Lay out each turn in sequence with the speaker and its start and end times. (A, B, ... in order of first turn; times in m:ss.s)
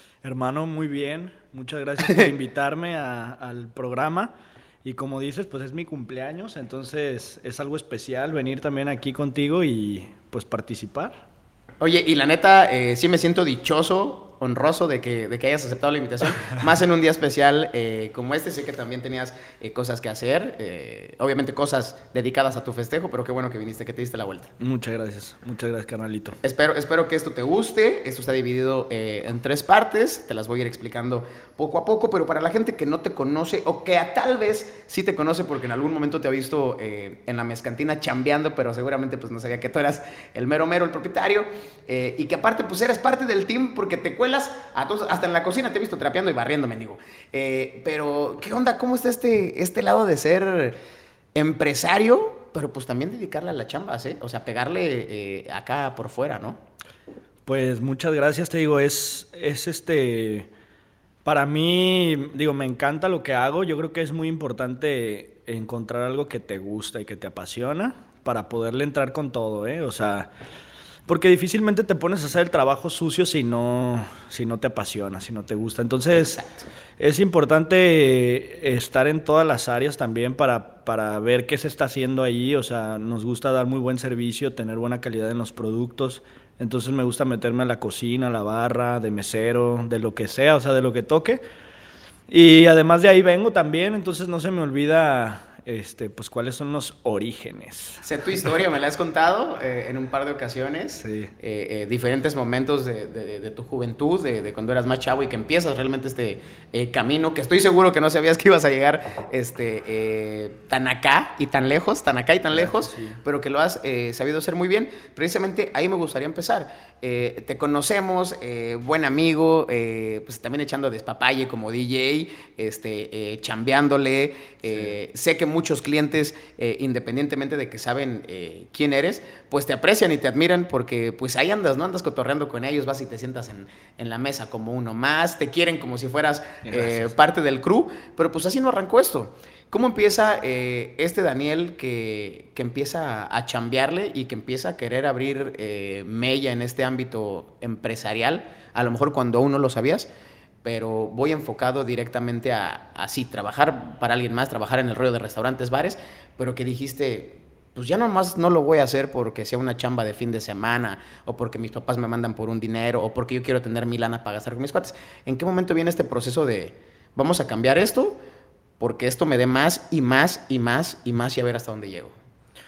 0:00.2-0:04.3 A
0:02.0-0:02.3 B
0:04.8-0:11.2 A
0:11.8-0:24.5 B
0:24.6-0:26.4 A
0:26.4-0:50.8 B
0:51.3-0:56.6 B
0:57.4-1:00.5 A
1:01.2-1:10.3 A
1:11.1-1:16.4 A
1:16.1-1:16.6 B
1:17.0-1:31.4 A
1:32.3-1:38.0 A
1:38.0-2:30.1 B
1:41.0-1:41.3 A
1:52.5-1:53.2 A
2:16.6-2:17.1 A
2:30.6-2:48.2 B
2:48.8-2:52.2 B